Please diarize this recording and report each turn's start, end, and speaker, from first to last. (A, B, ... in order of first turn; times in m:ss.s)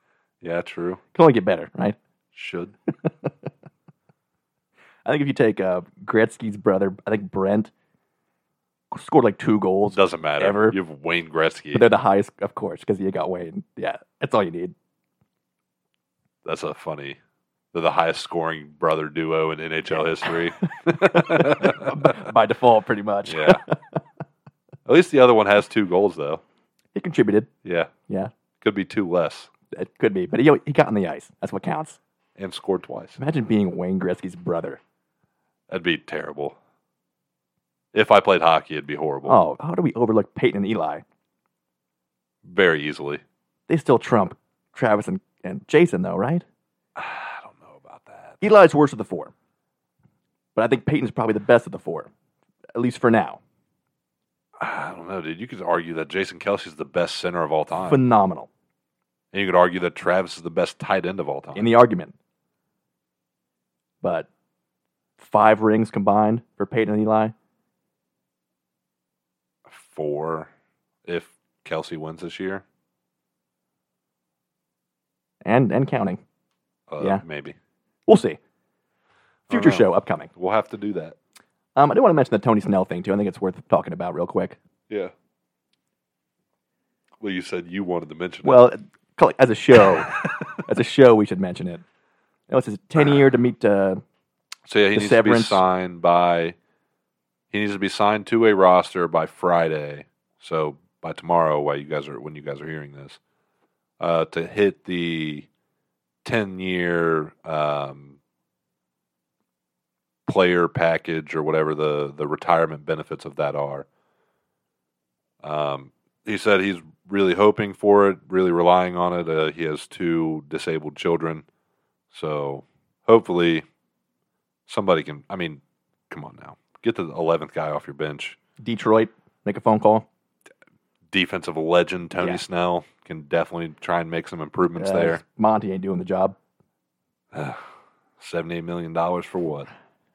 0:00.4-0:01.0 A
0:01.1-0:02.0 B
0:02.4-0:02.7 A
0:03.0-0:03.3 B
0:05.0-0:07.7 B
0:08.9-0:10.8 B
0:09.9-0:11.9 A
0:11.7-0:14.7 B
0:16.4-0:17.2 A
0:17.7-0:22.2 A
0:20.6-0:23.8 B
0:23.3-0:23.6 A
0:24.9-0:26.4 A
0:27.0-0:27.5 B
0:27.6-0:27.9 A
0:28.6-0:29.5 A
0:29.7-0:32.0 B
0:32.4-0:33.2 A
0:33.2-0:34.8 B
0:35.7-0:36.6 A
0:37.9-0:39.4 A
0:39.3-0:41.0 B
0:42.4-0:43.2 A
0:43.7-0:46.4 B
0:47.0-0:48.4 A
0:48.4-0:49.3 B
0:50.6-0:52.1 B
0:52.8-0:53.4 B
0:54.6-0:58.0 A
0:57.8-0:58.5 B
0:59.3-1:01.7 A
1:01.6-1:02.1 B
1:04.0-1:04.3 B
1:05.2-1:07.3 B
1:09.7-1:10.5 A
1:11.0-1:12.6 A
1:15.4-1:16.2 B
1:16.9-1:17.6 A
1:18.1-1:18.4 B
1:19.5-1:21.2 A
1:19.5-1:20.3 B
1:21.8-1:24.6 B
1:27.2-1:28.6 A
1:28.4-1:31.8 B
1:32.5-1:34.0 B
1:34.7-1:36.6 A
1:34.9-1:35.6 B
1:37.5-1:43.2 A
1:44.0-1:45.5 A
1:46.2-1:48.2 A
1:50.3-1:53.9 A
1:55.4-2:01.4 A
2:02.1-2:03.6 A
2:04.7-2:08.4 A
2:08.6-2:10.1 B
2:11.1-2:15.2 A
2:14.8-2:16.4 B
2:17.3-2:17.7 A
2:18.2-2:19.7 A